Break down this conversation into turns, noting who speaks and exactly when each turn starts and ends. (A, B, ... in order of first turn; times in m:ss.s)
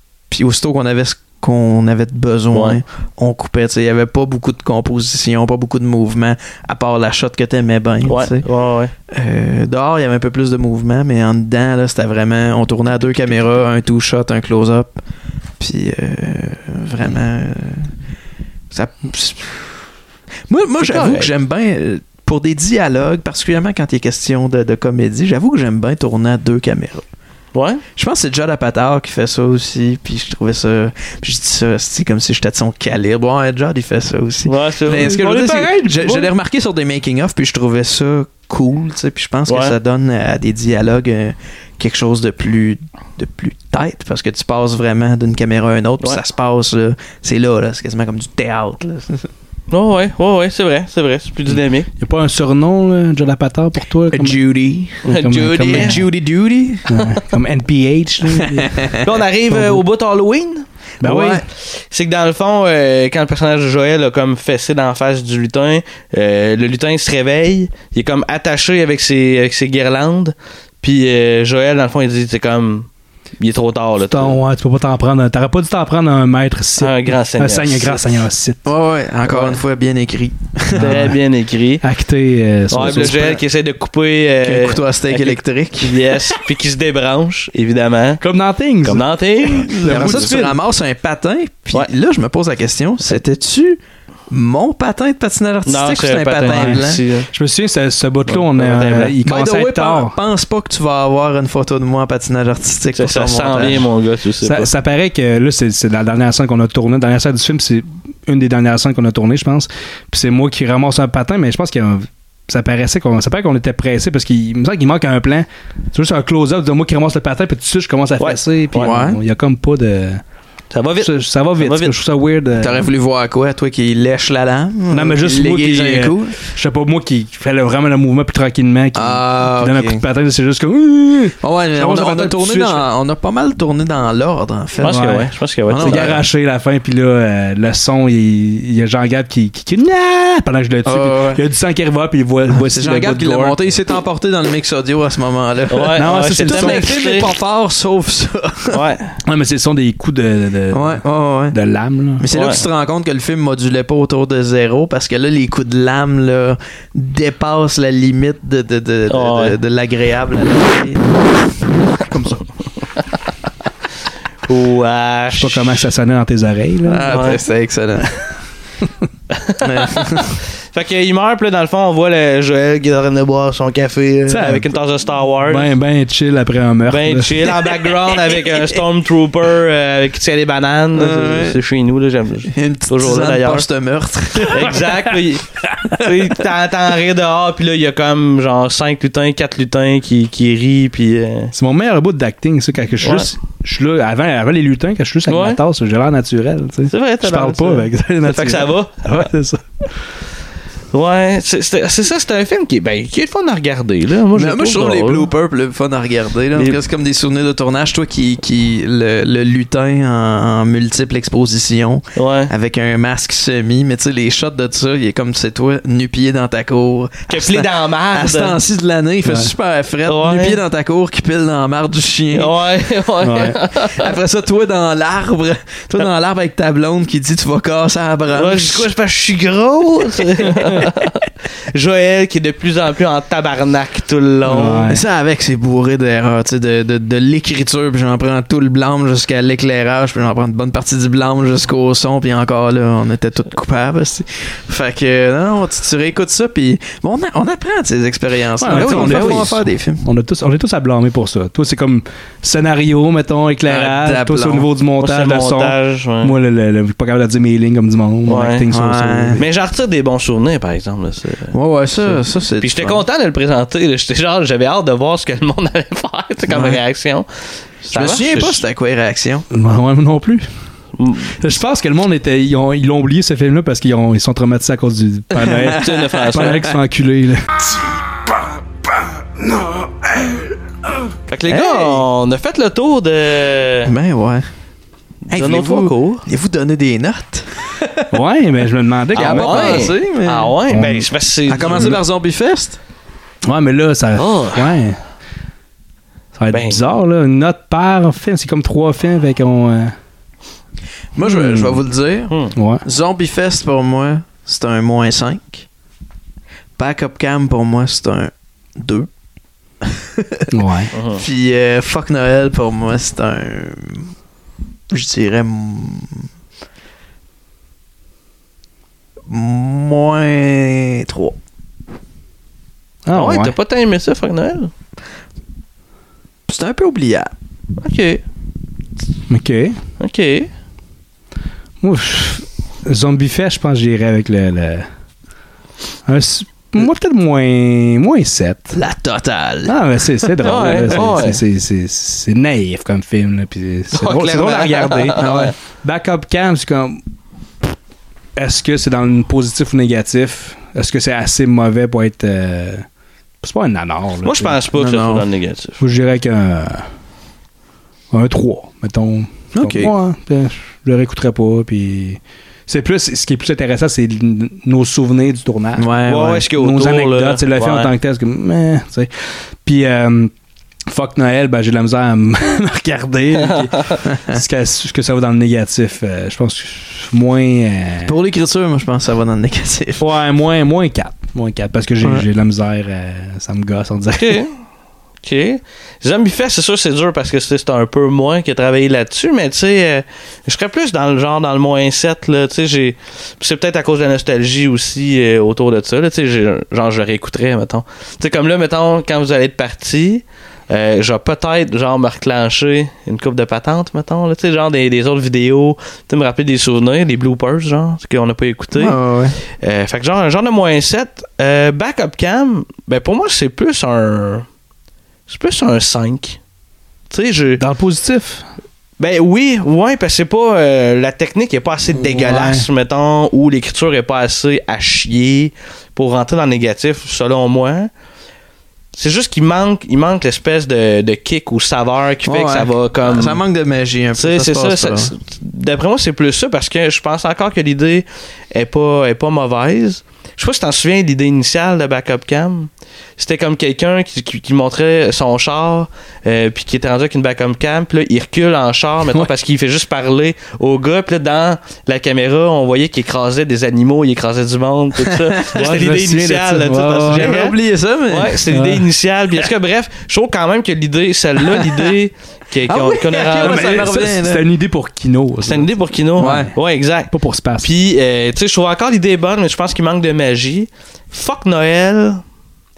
0:00.3-0:08.5 A
0:02.5-0:02.8 B
0:08.0-0:08.9 B
0:09.1-0:15.0 A
0:15.6-0:17.9 A
0:18.7-0:19.8 A
0:20.5-0:27.0 A
0:20.8-0:21.3 B
0:27.5-0:27.8 B
0:28.0-0:49.3 A
0:34.4-0:36.3 B
0:34.9-0:35.4 C
0:39.5-0:39.8 B
0:49.7-0:51.9 B
0:52.0-0:54.4 C
0:54.1-0:57.0 A
0:55.0-0:56.0 B
0:55.0-0:56.0 C
0:56.9-0:59.0 C
0:58.3-0:59.0 A
0:59.0-1:00.7 B
0:59.5-0:59.8 C
1:01.0-1:01.4 A
1:01.0-1:01.4 C
1:01.6-1:12.9 B
1:13.4-1:14.4 B
1:14.0-1:18.6 C
1:16.8-1:18.1 B
1:18.6-1:21.1 A
1:20.7-1:21.2 C
1:20.8-1:21.8 B
1:21.8-1:23.4 C
1:22.7-1:28.2 B
1:22.8-1:23.4 A
1:24.4-1:26.0 A
1:28.2-1:30.5 C
1:28.8-1:30.5 B
1:29.6-1:37.0 A
1:35.7-1:37.3 B
1:36.5-1:40.2 C
1:38.3-1:39.2 B
1:39.2-1:43.8 A
1:43.0-1:44.7 B
1:44.4-2:00.2 C
1:58.2-1:58.9 B
1:58.7-1:59.2 A
2:00.7-2:02.0 B
2:01.0-2:02.9 C
2:02.6-2:06.4 A
2:04.9-2:12.8 C
2:09.0-2:10.0 A
2:11.4-2:15.1 A
2:14.8-2:16.2 B
2:14.8-2:23.6 C
2:15.7-2:16.3 A
2:20.8-2:21.4 A
2:22.5-2:28.8 A
2:25.7-2:27.3 B
2:26.0-2:27.0 C
2:28.7-2:29.1 B
2:29.2-2:31.0 C
2:30.7-2:31.6 A
2:31.5-2:32.3 C
2:32.2-2:41.3 A
2:32.3-2:32.6 B
2:39.1-2:39.6 B
2:42.0-2:42.4 C
2:44.5-2:45.9 B
2:45.4-2:47.2 C
2:46.8-2:48.1 A
2:47.1-2:47.4 B
2:49.3-2:49.7 B
2:49.6-2:50.4 A
2:50.7-2:55.7 B
2:54.3-2:54.7 A
2:55.4-2:57.6 C
2:56.9-3:03.7 B
3:01.0-3:01.6 A
3:02.5-3:04.8 A
3:04.5-3:11.5 B
3:11.5-3:19.6 C
3:13.0-3:13.3 B
3:15.3-3:15.6 B
3:16.9-3:19.3 B
3:20.9-3:25.3 B
3:24.3-3:42.6 A
3:26.6-3:26.8 B
3:32.2-3:32.5 B
3:37.3-3:38.6 B
3:39.2-3:39.5 C
3:40.1-3:40.6 B
3:42.3-3:44.1 B
3:43.2-3:43.6 C
3:43.8-3:48.9 A
3:48.3-3:54.9 B
3:54.5-3:55.0 C
3:54.9-4:10.0 A
4:08.6-4:19.4 C
4:08.7-4:09.4 B
4:13.7-4:14.7 A
4:15.0-4:16.4 B
4:18.3-4:18.6 B
4:18.7-4:19.4 A
4:19.4-4:28.6 B
4:21.5-4:23.0 A
4:26.5-4:26.8 A
4:27.9-4:29.5 A
4:29.5-4:30.5 C
4:31.0-4:31.4 B
4:31.4-4:37.5 C
4:35.7-4:36.7 B
4:39.4-4:40.5 C
4:41.3-4:43.9 B
4:41.5-4:42.0 A
4:43.8-4:44.5 A
4:45.3-4:46.3 B
4:45.3-4:48.1 A
4:48.1-4:49.9 C
4:49.1-4:50.6 A
4:49.1-4:52.0 B
4:50.7-4:51.1 C
4:51.5-4:52.8 A
4:51.7-4:51.9 C
4:53.4-4:55.0 C
4:54.2-4:54.7 B
4:56.4-5:00.0 C
4:56.5-4:56.8 B
5:01.2-5:05.7 A
5:01.2-5:01.7 C
5:02.3-5:02.5 B
5:02.6-5:02.8 C
5:06.8-5:09.1 A
5:09.8-5:10.5 A
5:10.5-5:10.9 C
5:10.9-5:11.2 B
5:11.1-5:14.1 A
5:14.9-5:16.3 A
5:19.3-5:21.4 A
5:23.1-5:23.5 C
5:23.1-5:24.7 B
5:26.5-5:27.3 A
5:27.8-5:28.2 B
5:29.3-5:29.8 C
5:30.0-5:30.5 B
5:31.8-5:34.9 C
5:36.1-5:38.8 C
5:38.7-5:41.1 A
5:39.7-5:47.0 C
5:40.4-5:41.4 B
5:43.9-5:45.5 B
5:45.2-5:45.5 A
5:48.4-5:52.9 C
5:53.4-5:54.6 C
5:54.2-5:55.8 B
5:54.7-5:55.3 A
5:55.8-5:56.9 C
5:58.1-6:09.1 C
5:59.5-5:59.9 A
6:05.8-6:06.5 A
6:06.1-6:07.9 B
6:09.6-6:10.3 C
6:10.9-6:18.1 C
6:14.0-6:14.4 A
6:18.0-6:20.0 A
6:20.0-6:24.4 C
6:24.2-6:24.6 B
6:25.2-6:54.5 B
6:48.8-6:49.4 A
6:55.3-6:56.4 B
6:57.1-6:57.6 B
6:57.6-6:58.5 C
6:59.0-7:07.9 B
7:01.9-7:02.7 C
7:08.9-7:13.4 B
7:12.2-7:15.1 A
7:14.2-7:37.6 B
7:35.0-7:35.8 A
7:35.5-7:37.3 C
7:37.0-7:38.4 A
7:38.1-7:43.9 B
7:38.5-7:38.9 C
7:42.7-7:44.5 A
7:43.3-7:46.5 C
7:45.4-7:52.2 B
7:46.2-7:46.5 A
7:47.1-7:47.7 C